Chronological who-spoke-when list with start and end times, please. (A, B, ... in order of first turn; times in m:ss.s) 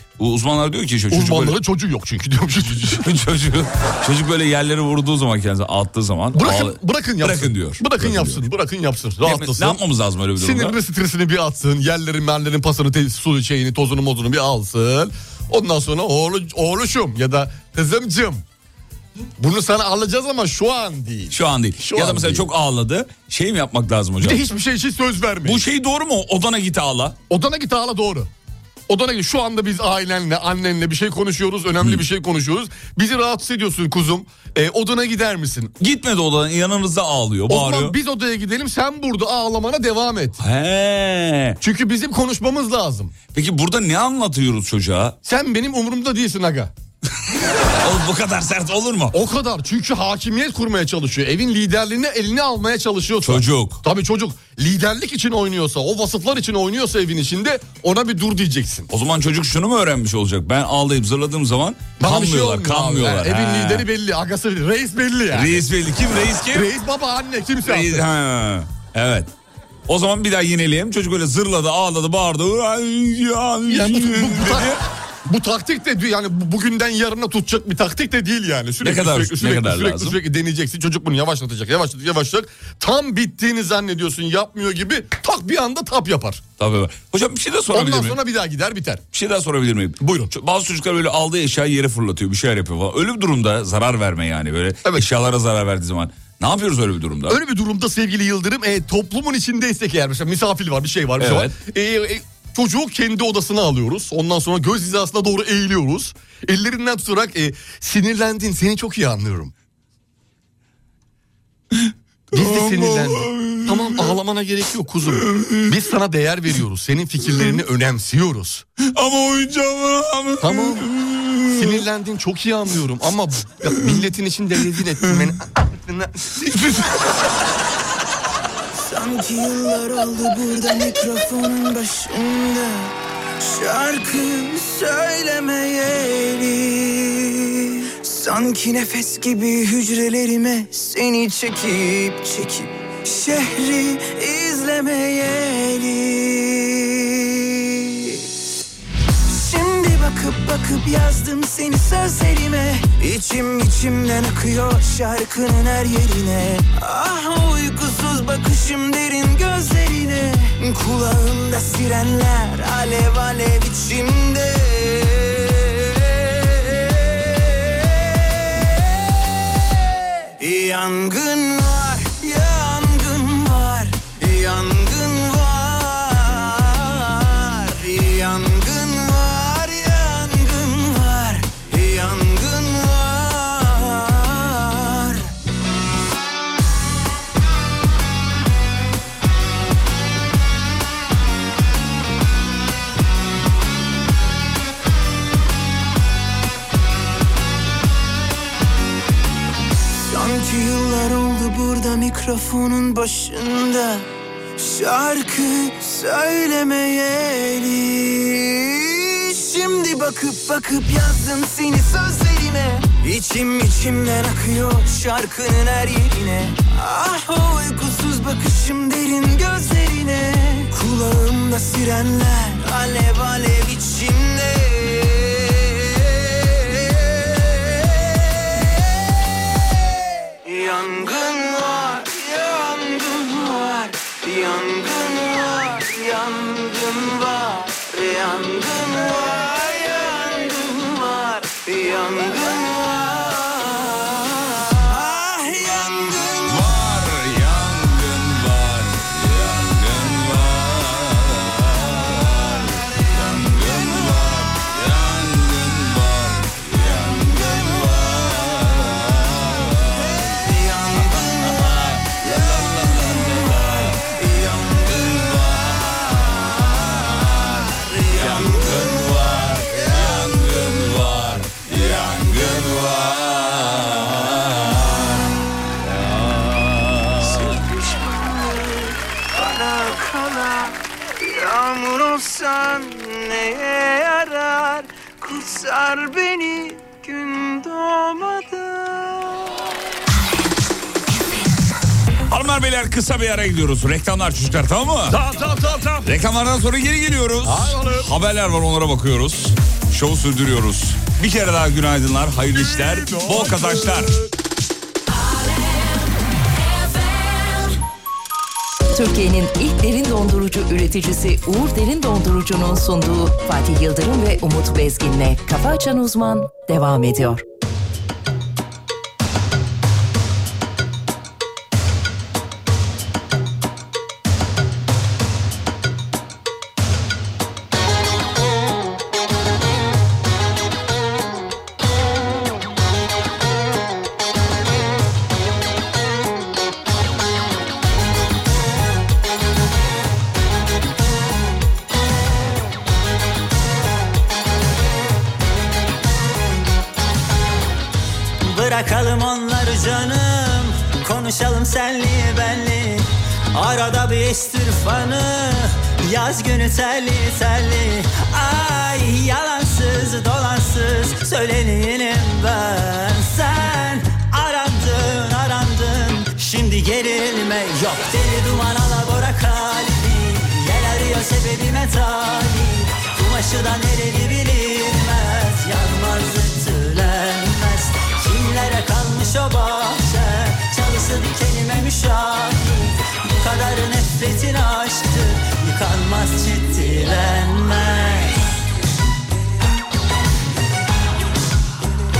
0:00.2-0:01.6 A
0:01.1-0:03.0 B
0:02.9-0:08.4 A
0:06.3-0:09.8 B
0:09.2-0:10.8 A
0:10.4-0:18.4 B
0:19.4-0:22.4 B
0:21.3-0:24.4 A
0:24.2-0:25.6 B
0:25.4-0:27.2 A
0:27.3-0:28.3 B
0:28.9-0:35.7 B
0:35.8-0:38.0 A
0:37.5-0:40.4 B
0:40.4-0:41.6 A
0:41.6-0:43.1 B
0:43.3-0:45.2 A
0:45.2-0:46.7 B
0:47.6-0:49.2 A
0:49.1-0:58.9 B
0:53.2-0:53.8 A
0:58.9-1:03.9 A
1:02.0-1:05.6 B
1:05.3-1:06.7 A
1:06.5-1:08.0 B
1:07.6-1:09.3 A
1:09.9-1:14.8 A
1:13.7-1:26.4 B
1:18.8-1:20.2 A
1:26.6-1:28.2 A
1:27.7-1:29.0 B
1:29.1-1:37.4 A
1:30.0-1:30.3 B
1:37.3-1:49.5 B
1:41.2-1:41.6 A
1:51.7-1:54.2 A
1:52.3-1:58.6 B
1:55.1-1:55.7 A
1:58.8-2:01.8 A
2:00.4-2:00.9 B
2:01.5-2:06.9 B
2:08.8-2:28.3 C
2:29.3-2:49.3 C
2:50.3-3:05.3 C
3:20.1-3:48.7 C
3:50.4-4:06.7 C
4:06.4-4:20.4 A
4:19.9-4:30.8 C
4:20.9-4:26.3 A
4:27.1-4:27.4 A
4:28.1-4:37.6 A
4:37.2-4:49.5 C
4:52.3-4:55.2 A
4:55.1-4:56.1 B
4:56.0-5:04.2 A
4:57.4-4:58.1 B
5:02.5-5:04.1 B
5:08.9-5:17.4 D
5:48.4-6:28.4 E